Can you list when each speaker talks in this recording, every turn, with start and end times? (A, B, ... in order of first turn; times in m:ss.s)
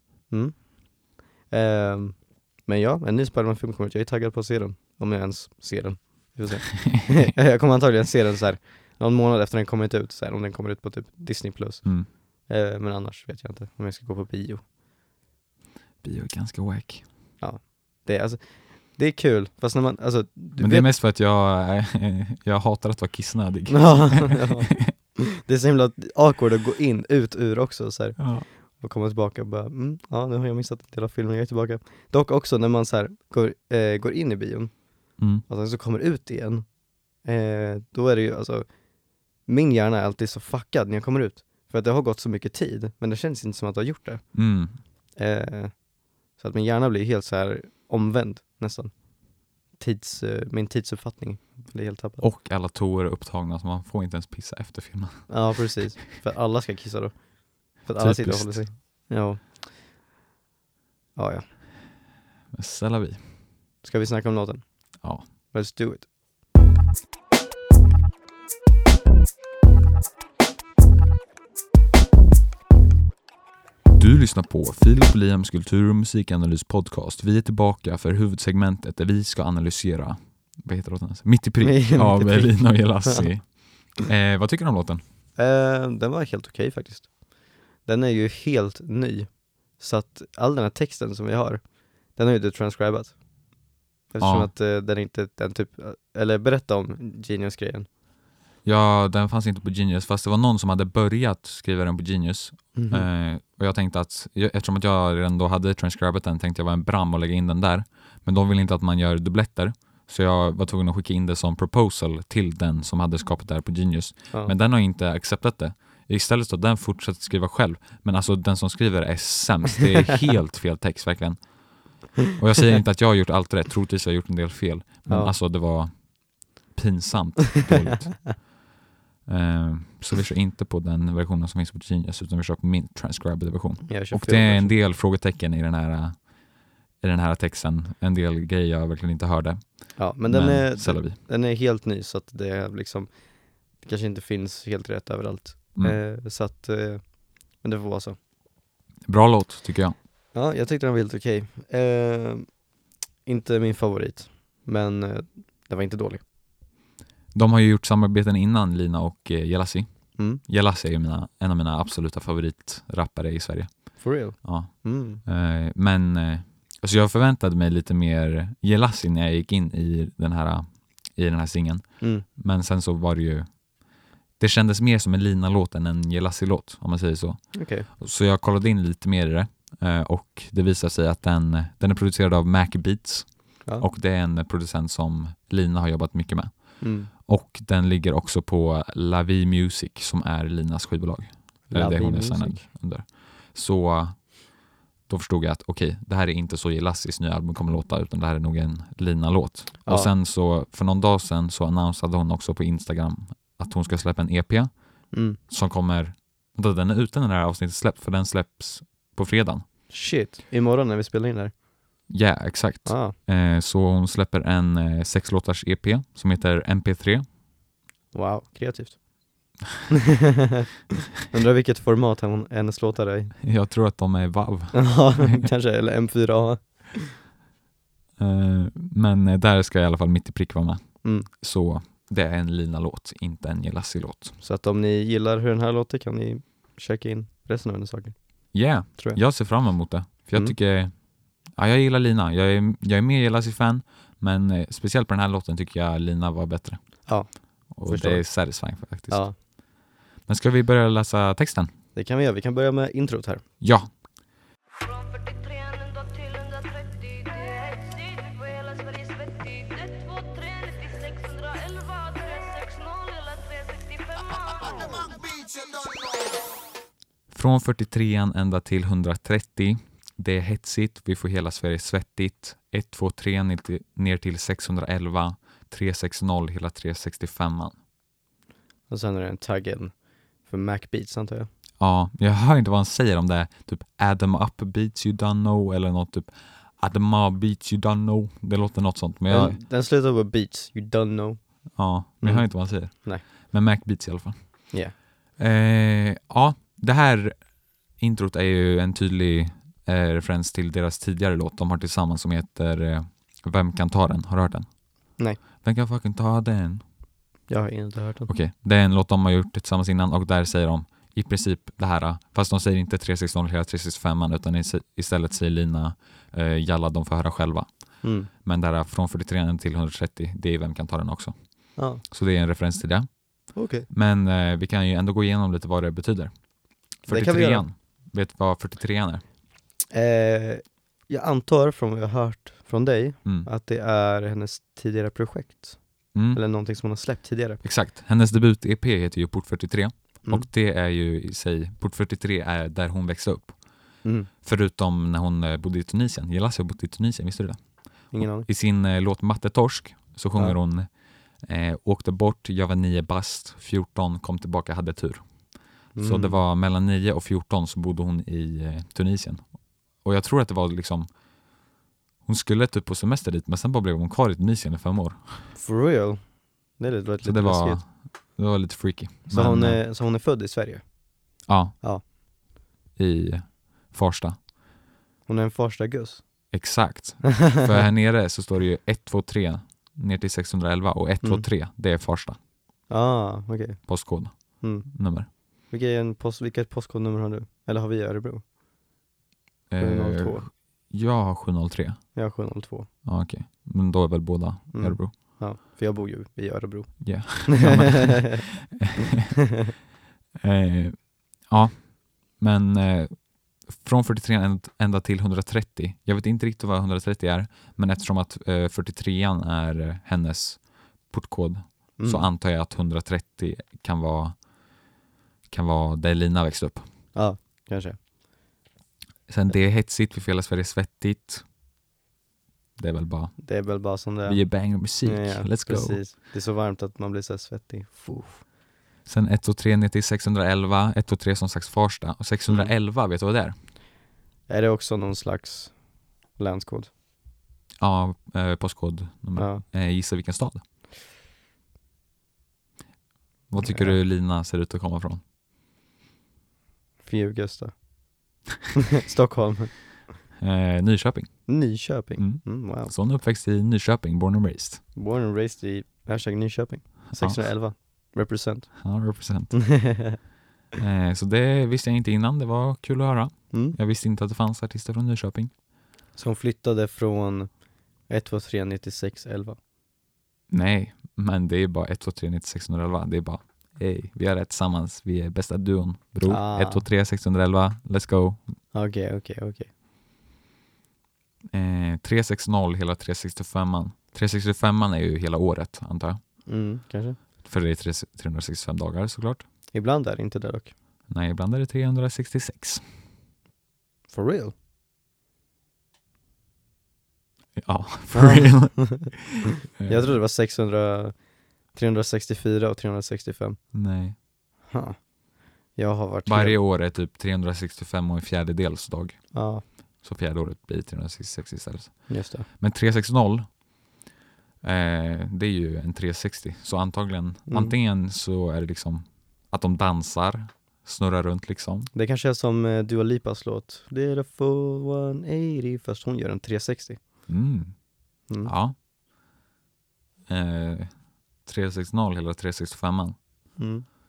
0:00.3-0:14.6 A
0:16.0-0:17.0 B
0:17.4-0:20.9 A
0:20.6-0:24.9 B
0:23.7-0:36.7 A
0:28.2-0:28.5 B
0:35.2-0:35.4 B
0:37.2-0:38.7 A
0:39.4-0:44.3 A
0:44.3-0:44.8 B
0:45.2-0:52.2 A
0:52.2-0:55.6 B
0:55.3-0:59.7 A
0:58.0-0:58.7 B
1:01.2-1:01.4 A
1:02.5-1:03.2 B
1:03.8-1:06.1 A
1:13.9-1:25.0 B
1:21.6-1:23.2 A
1:25.4-1:27.2 A
1:27.8-1:31.6 A
1:32.1-1:33.2 A
1:34.1-1:37.9 A
1:34.2-1:34.5 B
1:38.6-2:08.5 B
1:42.8-1:43.1 A
2:05.1-2:05.3 A
2:09.3-2:16.4 B
2:13.9-2:14.8 A
2:17.0-2:21.2 B
2:20.0-2:23.1 A
2:23.8-2:28.2 A
2:29.1-2:30.0 B
2:30.3-2:32.5 A
2:33.3-2:36.2 A
2:37.3-2:53.7 B
2:44.0-2:45.2 A
2:52.0-2:52.3 A
2:54.4-3:14.5 B
2:57.5-2:57.9 A
3:06.8-3:07.1 A
3:11.7-3:12.6 A
3:15.1-3:24.7 B
3:19.9-3:20.1 A
3:25.1-3:25.4 A
3:25.5-3:29.6 B
3:29.9-3:31.5 A
3:32.1-3:37.2 B
3:32.8-3:33.2 A
3:38.1-3:39.0 A
3:39.9-3:40.6 A
3:41.2-3:43.4 A
3:43.4-3:45.5 B
3:44.7-3:47.2 A
3:48.2-3:54.4 B
3:51.0-3:51.3 A
3:54.4-3:59.2 A
3:58.5-4:07.1 B
4:07.1-4:09.4 A
4:07.7-4:09.2 B
4:10.3-4:11.7 B
4:12.0-4:13.4 A
4:13.6-4:13.9 B
4:14.8-4:25.3 C
4:27.3-4:37.8 B
4:38.9-4:41.5 A
4:41.8-4:49.6 B
4:49.3-4:53.2 A
4:51.8-4:54.8 B
4:55.4-5:04.8 B
5:05.6-5:06.8 B
5:07.5-5:08.3 A
5:08.3-5:29.2 B
5:18.0-5:18.3 A
5:21.8-5:22.0 A
5:23.5-5:23.9 A
5:27.1-5:27.6 A
5:29.9-5:37.6 A
5:36.1-5:36.4 B
5:37.6-5:43.6 B
5:44.0-5:44.3 A
5:44.4-5:50.9 B
5:48.1-5:48.5 A
5:51.4-6:01.1 B
5:56.0-5:56.4 A
6:02.2-6:05.5 B
6:05.5-6:06.2 A
6:06.8-6:07.8 A
6:07.2-6:09.8 B
6:09.3-6:11.0 A
6:11.5-6:11.8 B
6:11.8-6:12.0 A
6:13.0-6:14.4 B
6:15.3-6:16.3 A
6:16.5-6:22.4 B
6:17.2-6:17.6 A
6:21.2-6:21.5 A
6:22.9-6:23.9 A
6:23.9-6:25.3 B
6:24.5-6:28.5 A
6:29.7-6:32.0 B
6:29.8-6:30.5 A
6:32.2-6:32.9 A
6:33.0-6:35.1 B
6:34.7-6:38.4 A
6:37.0-6:39.0 B
6:40.4-6:54.4 B
6:52.0-6:52.3 A
6:55.5-6:56.8 B
6:57.1-6:58.0 A
6:59.3-7:01.4 B
7:02.8-7:03.5 B
7:03.4-7:08.4 A
7:04.2-7:06.0 B
7:09.1-7:13.6 B
7:12.5-7:12.7 A
7:14.5-7:15.8 A
7:16.3-7:16.9 A
7:17.8-7:20.6 B
7:19.4-7:19.6 A
7:23.5-7:25.2 B
7:23.6-7:24.0 A
7:27.0-7:27.8 A
7:29.0-7:29.7 A
7:30.4-7:31.5 B
7:31.5-7:32.9 A
7:32.2-7:34.8 B
7:35.0-7:38.8 A
7:37.1-7:37.4 B
7:38.8-7:39.6 B
7:39.5-7:40.2 A
7:40.8-7:45.5 B
7:43.5-7:43.8 A
7:46.2-7:47.5 A
7:48.1-7:49.6 A
7:50.5-7:58.4 B
7:56.2-7:56.8 A
7:58.7-7:59.7 A
8:01.5-8:06.2 B
8:06.5-8:07.2 A
8:07.4-8:09.4 B
8:09.7-8:10.7 A
8:11.1-8:12.8 B
8:14.1-8:14.5 A
8:17.6-8:20.2 B
8:18.1-8:19.1 A
8:19.8-8:21.2 A
8:21.7-8:23.6 A
8:23.7-8:24.2 B
8:24.7-8:25.0 A
8:25.8-8:26.6 A
8:26.3-8:29.4 B
8:29.3-8:29.6 A
8:30.0-8:33.5 B
8:32.1-8:32.5 A
8:34.6-8:41.9 B
8:37.5-8:37.8 A
8:41.9-8:47.0 A
8:47.3-8:47.7 B
8:48.3-8:48.5 A
8:48.4-8:48.8 B
8:50.3-8:53.2 B
8:53.6-8:53.8 A